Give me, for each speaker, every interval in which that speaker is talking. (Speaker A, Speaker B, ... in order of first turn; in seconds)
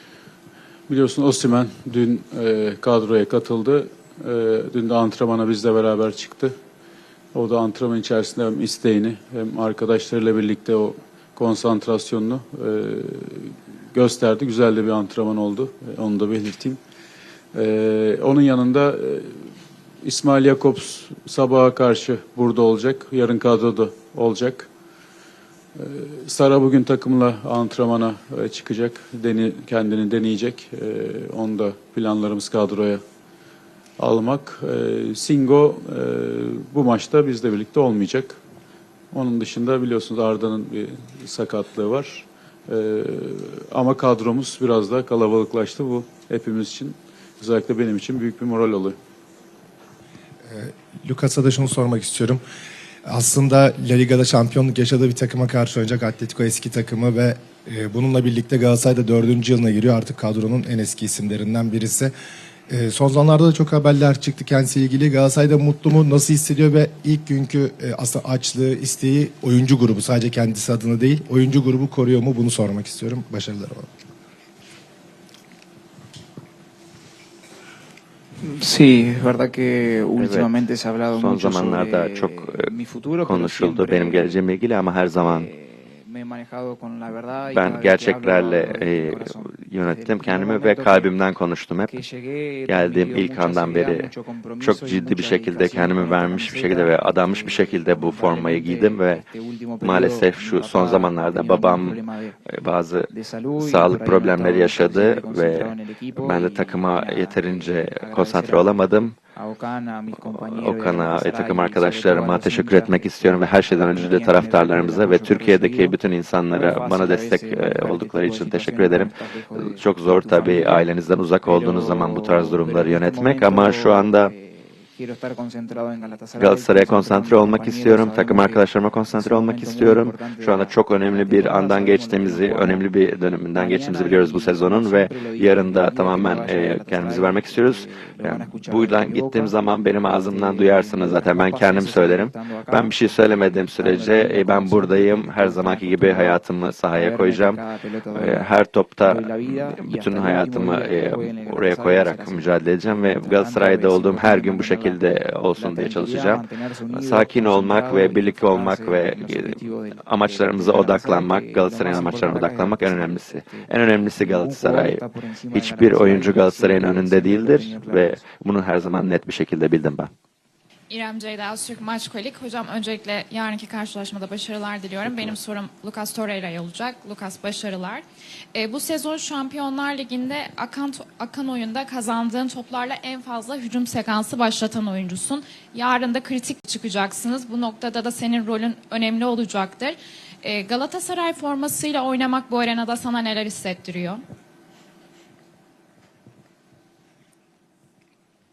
Speaker A: 0.9-6.5, 7.3-16.8, 17.5-19.5, 20.0-24.7, 25.8-33.0, 34.0-38.4, 39.1-49.0
Speaker B: 50.5-52.4, 53.1-62.1, 62.7-73.9
Speaker C: 78.4-84.4, 85.2-91.1, 91.9-102.4, 103.1-116.0, 116.5-120.9, 121.5-132.9, 133.5-146.4, 146.9-168.3
Speaker D: 80.2-80.6, 81.1-82.7, 83.2-85.5, 87.5-92.0, 92.7-94.1, 94.6-99.2, 99.8-102.0, 102.5-103.1, 103.6-109.2, 110.3-124.3, 126.4-147.6, 148.1-165.0, 165.5-170.1
Speaker E: 170.9-178.0, 178.6-194.2